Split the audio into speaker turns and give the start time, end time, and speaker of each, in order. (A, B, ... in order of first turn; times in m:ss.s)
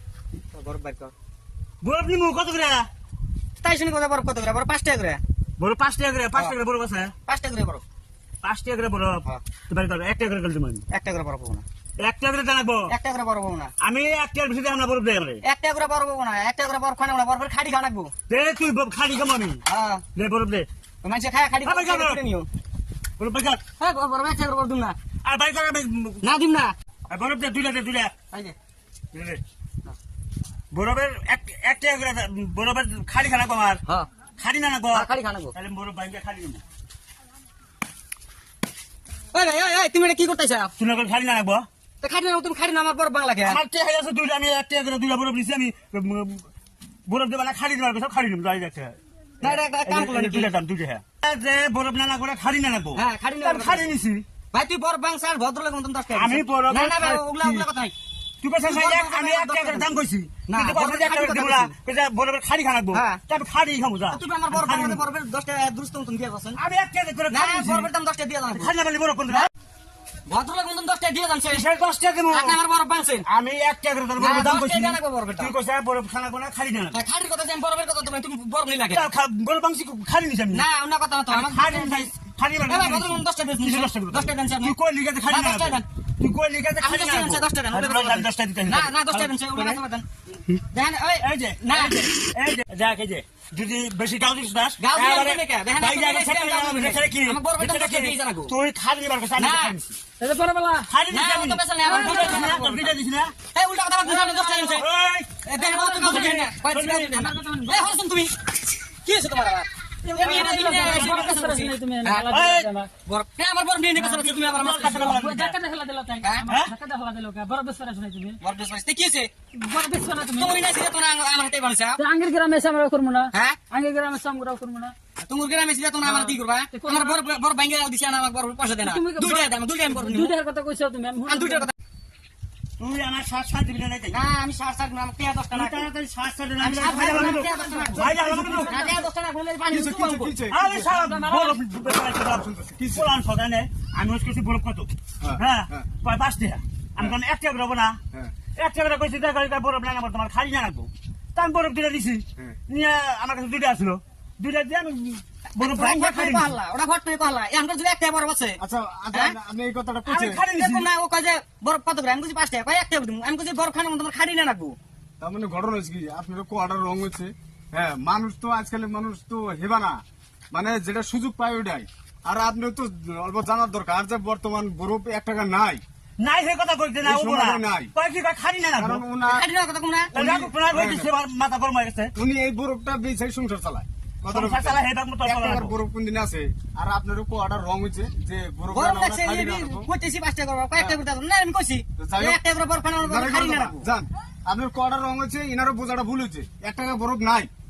0:00.5-0:01.1 A
0:01.8-0:02.9 B
0:03.6-0:05.2 A
0:05.6-0:07.1 B
0:07.2-0:07.8 A
0:08.4-0:10.8 B
0:10.9-0:11.6 A
0:12.0-0:12.9 B
0:12.9-0:13.7 A
0:13.8-0:15.4 B
0:15.4-0:18.1 A
0:18.3-0:19.6 B
0:19.6-0:20.0 A
0:20.1-0:20.7 B
0:21.0-0:22.5 A
0:21.6-0:22.2 B
0:23.2-0:23.6 B
0:23.8-0:25.0 A
0:25.2-0:26.2 B
0:26.2-0:26.7 A
0:27.1-0:28.1 B
0:29.1-0:29.4 B
0:30.7-0:33.8 B
0:34.4-0:36.6 B
0:34.9-0:35.5 A
0:39.3-0:40.7 A
0:40.8-0:41.6 B
0:42.0-0:43.6 A
0:43.4-0:46.5 B
0:47.1-0:54.2 B
0:49.4-0:50.5 A
0:52.9-0:53.9 A
0:54.5-0:57.9 A
0:56.1-0:57.6 B
0:58.4-1:05.0 B
0:58.6-0:59.9 A
1:00.5-1:01.7 A
1:02.9-1:03.2 A
1:04.1-1:06.6 A
1:06.6-1:07.9 B
1:07.3-1:08.7 A
1:08.5-1:09.5 B
1:10.3-1:11.6 A
1:11.5-1:12.6 B
1:12.3-1:13.2 A
1:13.3-1:17.0 B
1:14.2-1:15.5 A
1:16.9-1:19.0 A
1:18.9-1:20.6 B
1:20.5-1:22.1 A
1:21.3-1:29.8 B
1:22.7-1:24.7 A
1:25.3-1:25.8 A
1:26.8-1:30.0 A
1:30.7-1:32.1 A
1:31.2-1:39.9 B
1:34.8-1:38.5 A
1:39.4-1:39.8 A
1:40.2-1:40.9 C
1:40.9-1:43.3 B
1:41.1-1:42.9 A
1:41.8-1:42.8 C
1:43.5-1:44.9 A
1:44.0-1:44.8 C
1:44.8-1:45.4 B
1:45.4-1:48.3 A
1:45.6-1:46.4 C
1:46.0-1:47.2 B
1:47.1-1:48.0 C
1:49.0-1:52.3 A
1:50.0-1:52.9 C
1:50.2-1:51.5 B
1:52.3-1:52.7 B
1:53.0-1:55.3 A
1:54.0-1:54.2 C
1:54.3-1:55.6 B
1:54.8-1:58.4 C
1:56.2-1:56.4 A
1:56.5-1:56.7 B
1:58.4-1:59.3 A
1:59.5-2:00.6 C
2:00.2-2:02.0 A
2:02.0-2:04.9 C
2:03.3-2:03.6 A
2:05.2-2:10.4 A
2:06.0-2:07.2 C
2:08.8-2:11.7 C
2:11.3-2:11.7 A
2:12.8-2:14.2 B
2:14.1-2:15.9 A
2:15.5-2:18.8 B
2:16.6-2:20.3 A
2:16.9-2:19.0 C
2:19.7-2:20.9 D
2:20.5-2:28.0 B
2:20.8-2:21.6 C
2:22.2-2:23.1 D
2:25.2-2:25.9 D
2:28.6-2:36.5 B
2:35.6-2:38.6 A
2:38.6-2:40.4 D
2:40.0-2:40.9 B
2:40.4-2:44.8 A
2:45.2-2:50.0 D
2:50.5-2:55.8 D
2:56.2-2:59.0 B
2:57.0-2:57.9 D
2:58.8-2:59.4 D
2:59.2-3:00.1 A
3:00.1-3:02.1 B
3:00.1-3:01.1 D
3:02.2-3:09.9 D
3:04.3-3:05.7 B
3:08.7-3:13.8 A
3:12.0-3:12.4 D
3:13.0-3:17.5 D